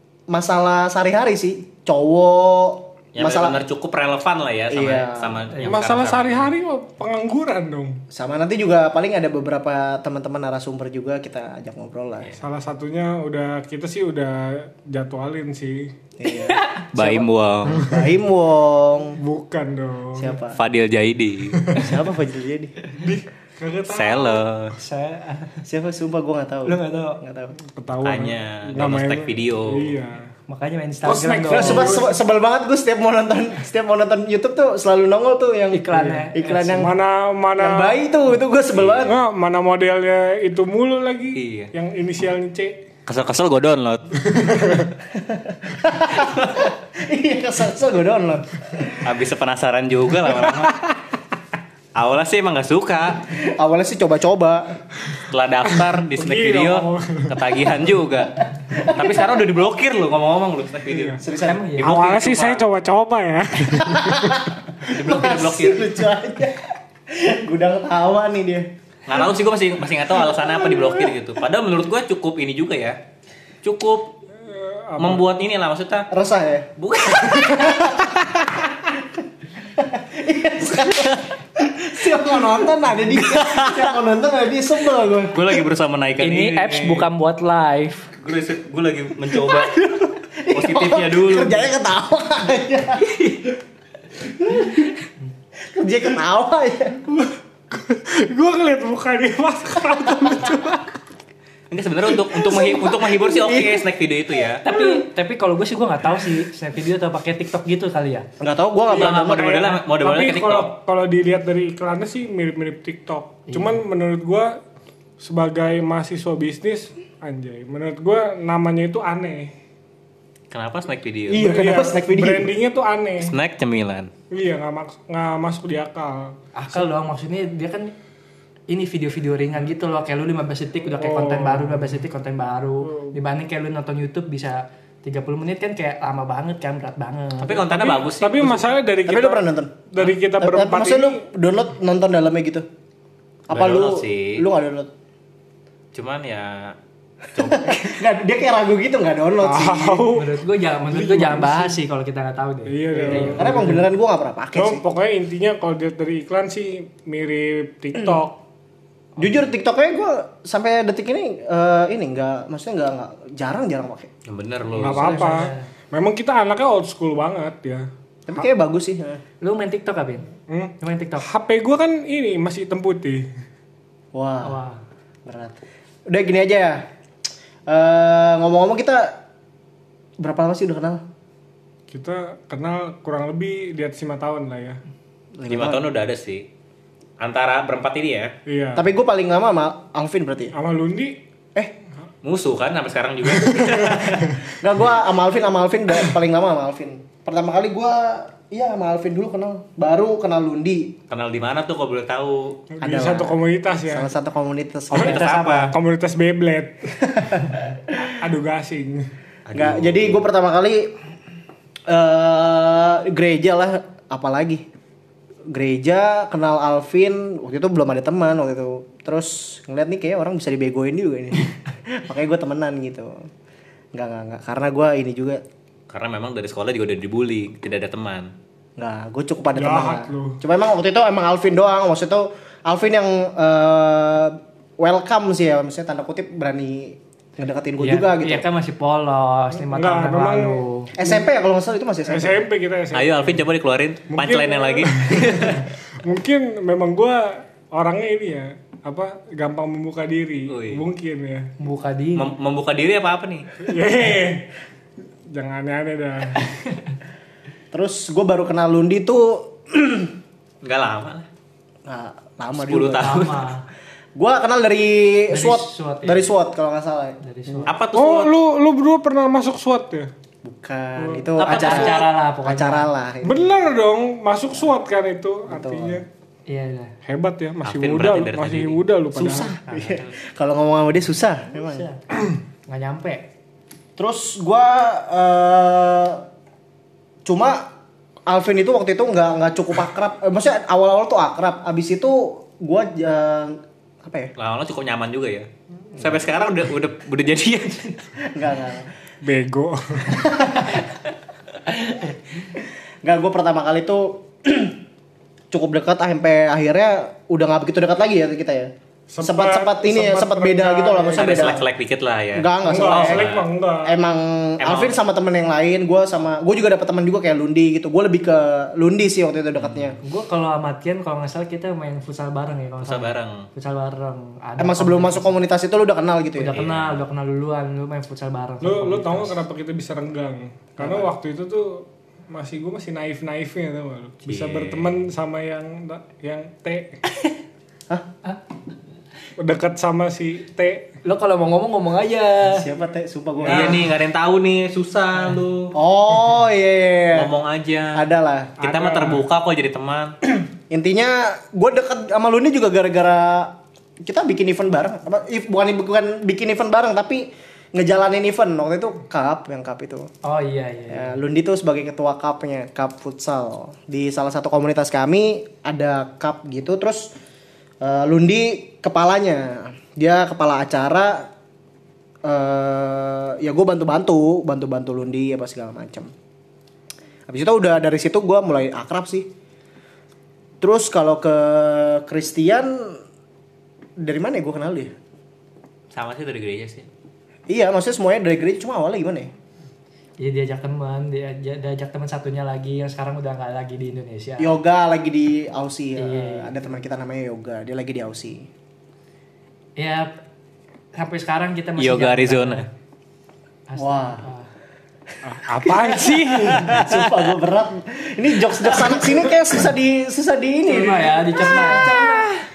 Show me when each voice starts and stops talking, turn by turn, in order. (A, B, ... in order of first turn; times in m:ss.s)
0:00.3-0:03.6 A
0:03.1-0:06.5 B
0:04.7-0:05.4 A
0:05.5-0:05.8 C
0:05.6-0:08.0 D
0:08.1-0:12.3 A
0:12.4-0:15.9 D
0:16.2-0:19.2 A
0:16.2-0:16.9 C
0:16.9-0:17.9 B
0:19.2-0:20.4 D
0:20.2-0:20.6 A
0:20.6-0:21.8 B
0:21.6-0:21.9 D
0:21.8-0:22.7 A
0:22.9-0:24.4 D
0:23.9-0:24.8 B
0:24.8-0:25.6 C
0:25.6-0:27.6 A
0:26.6-0:27.2 C
0:27.7-0:30.3 D
0:28.0-0:29.9 B
0:30.5-0:32.0 C
0:31.0-0:32.1 D
0:31.5-0:36.9 A
0:35.7-0:36.9 C
0:36.7-0:38.0 D
0:37.6-0:39.2 A
0:38.7-0:39.0 B
0:39.0-0:42.8 D
0:41.3-0:41.7 B
0:43.0-0:44.1 B
0:44.3-0:44.9 D
0:45.1-0:49.1 A
0:49.0-0:50.8 B
0:50.3-0:50.8 D
0:52.0-0:53.2 B
0:53.3-0:54.7 A
0:55.3-1:01.2 B
0:55.7-0:57.4 D
0:58.6-0:59.2 A
1:00.9-1:01.2 D
1:01.2-1:01.7 A
1:01.4-1:01.9 C
1:01.8-1:02.6 B
1:01.8-1:04.5 D
1:03.8-1:08.7 A
1:04.8-1:05.9 B
1:09.0-1:13.0 B
1:13.6-1:14.1 B
1:14.3-1:15.2 D
1:15.0-1:16.1 B
1:16.1-1:16.7 A
1:16.8-1:18.0 B
1:17.2-1:18.5 A
1:19.8-1:25.6 A
1:20.8-1:21.2 B
1:23.1-1:23.9 B
1:25.3-1:27.1 B
1:26.2-1:28.1 C
1:28.2-1:29.8 B
1:30.4-1:33.2 A
1:30.5-1:31.6 B
1:34.4-1:34.9 A
1:35.7-1:37.0 A
1:37.1-1:40.9 D
1:41.7-1:44.6 B
1:42.4-1:43.8 A
1:44.6-1:48.3 C
1:48.4-1:49.7 A
1:48.9-1:50.7 B
1:48.9-1:54.6 D
1:53.5-1:53.7 C
1:55.2-1:59.5 D
2:00.5-2:01.5 B
2:01.3-2:02.6 A
2:01.4-2:03.3 D
2:03.2-2:04.1 B
2:04.3-2:06.4 D
2:06.5-2:07.9 C
2:08.7-2:18.0 C
2:10.9-2:12.0 D
2:12.8-2:13.2 D
2:17.4-2:18.7 B
2:17.8-2:21.2 D
2:19.0-2:19.8 A
2:20.4-2:22.6 A
2:23.5-2:24.9 A
2:23.5-2:24.4 B
2:25.9-2:26.7 B
2:27.3-2:28.0 B
2:27.4-2:30.1 A
2:29.4-2:31.8 D
2:30.1-2:33.8 C
2:32.7-2:33.8 D
2:32.9-2:34.8 A
2:34.5-2:38.4 D
2:39.2-2:44.1 A
2:44.3-2:45.2 B
2:44.8-2:47.9 D
2:44.8-2:45.6 C
2:48.3-2:49.2 A
2:49.4-2:50.3 C
2:50.5-2:53.2 D
2:50.8-2:51.2 C
2:54.1-2:54.6 A
2:54.4-2:54.8 C
2:55.2-2:55.6 A
2:56.1-2:56.8 A
2:57.7-2:59.2 A
3:00.2-3:01.0 A
3:01.9-3:04.8 D
3:05.4-3:05.8 A
3:05.5-3:06.4 B
3:07.2-3:08.3 B
3:08.4-3:08.8 D
3:08.7-3:10.5 A
3:10.5-3:11.2 D
3:12.2-3:14.4 B
3:13.3-3:14.4 D
3:14.6-3:20.9 A
3:21.1-3:22.6 B
3:22.7-3:24.1 D
3:22.8-3:25.2 A
3:24.9-3:25.7 B
3:25.0-3:25.7 C
3:25.0-3:27.0 D
3:27.0-3:28.1 A
3:28.2-3:29.1 D
3:29.5-3:30.2 B
3:29.5-3:30.9 A
3:31.9-3:34.6 A
3:35.5-3:43.3 A
3:43.9-3:45.4 A
3:45.9-3:48.3 B
3:48.8-3:58.4 A
3:49.5-3:50.4 D
3:57.8-4:00.9 C
3:59.6-4:01.2 D
4:01.0-4:02.4 A
4:02.1-4:03.4 D
4:02.9-4:05.6 B
4:04.1-4:11.5 D
4:10.5-4:10.8 B
4:11.6-4:12.3 C
4:12.2-4:13.5 B
4:13.6-4:14.5 D
4:15.3-4:16.4 D
4:17.7-4:20.1 A
4:20.6-4:21.3 B
4:21.8-4:23.2 A
4:22.6-4:23.5 B
4:23.0-4:23.6 C
4:24.2-4:27.7 A
4:25.3-4:26.3 C
4:27.2-4:27.8 C
4:27.7-4:28.3 B
4:27.9-4:30.1 D
4:30.4-4:33.5 A
4:31.0-4:31.3 D
4:31.4-4:32.9 C
4:31.4-4:32.0 B
4:33.2-4:36.0 D
4:35.5-4:36.0 A
4:36.5-4:36.9 C
4:37.0-4:39.5 D
4:37.6-4:38.8 B
4:39.1-4:41.9 A
4:39.6-4:40.0 C
4:41.6-4:42.0 C
4:42.7-4:43.2 C
4:44.0-4:46.2 A
4:47.2-4:47.7 A
4:48.3-4:54.3 A
4:54.4-4:58.1 B
4:58.2-4:58.9 A
4:59.2-5:00.2 D
5:00.1-5:00.8 A
5:03.0-5:04.8 A
5:05.5-5:11.6 A
5:09.1-5:11.6 D
5:11.1-5:13.5 B
5:12.3-5:13.3 A
5:12.6-5:13.9 D
5:13.8-5:20.0 A
5:14.6-5:15.0 B
5:19.6-5:19.9 B
5:20.0-5:25.3 C
5:22.8-5:23.4 B
5:24.6-5:26.6 A
5:26.4-5:29.4 C
5:26.5-5:27.0 B
5:28.6-5:37.0 D
5:30.8-5:31.1 A
5:34.2-5:35.0 B
5:39.4-5:40.9 D
5:41.0-5:42.6 C
5:42.5-5:43.9 A
5:43.4-5:45.7 B
5:43.5-5:43.7 D
5:45.7-5:47.3 A
5:47.1-5:48.0 B
5:47.9-5:48.6 A
5:48.6-5:49.2 D
5:48.6-5:50.2 B
5:50.5-6:00.1 A
6:00.2-6:01.1 C
6:00.9-6:07.1 A
6:07.8-6:11.3 A
6:12.2-6:16.1 A
6:17.3-6:19.3 A
6:20.6-6:23.0 A
6:24.0-6:24.9 A
6:25.9-6:26.9 B
6:27.5-6:29.3 A
6:30.2-6:34.5 C
6:34.4-6:38.5 A
6:36.0-6:36.5 C
6:39.8-6:40.1 C
6:40.9-6:42.7 C
6:41.8-6:42.6 B
6:43.7-6:44.5 C
6:43.8-6:44.3 A
6:45.2-6:46.7 D
6:45.5-6:52.3 A
6:46.4-6:47.2 B
6:50.7-6:51.9 C
6:51.9-6:52.3 B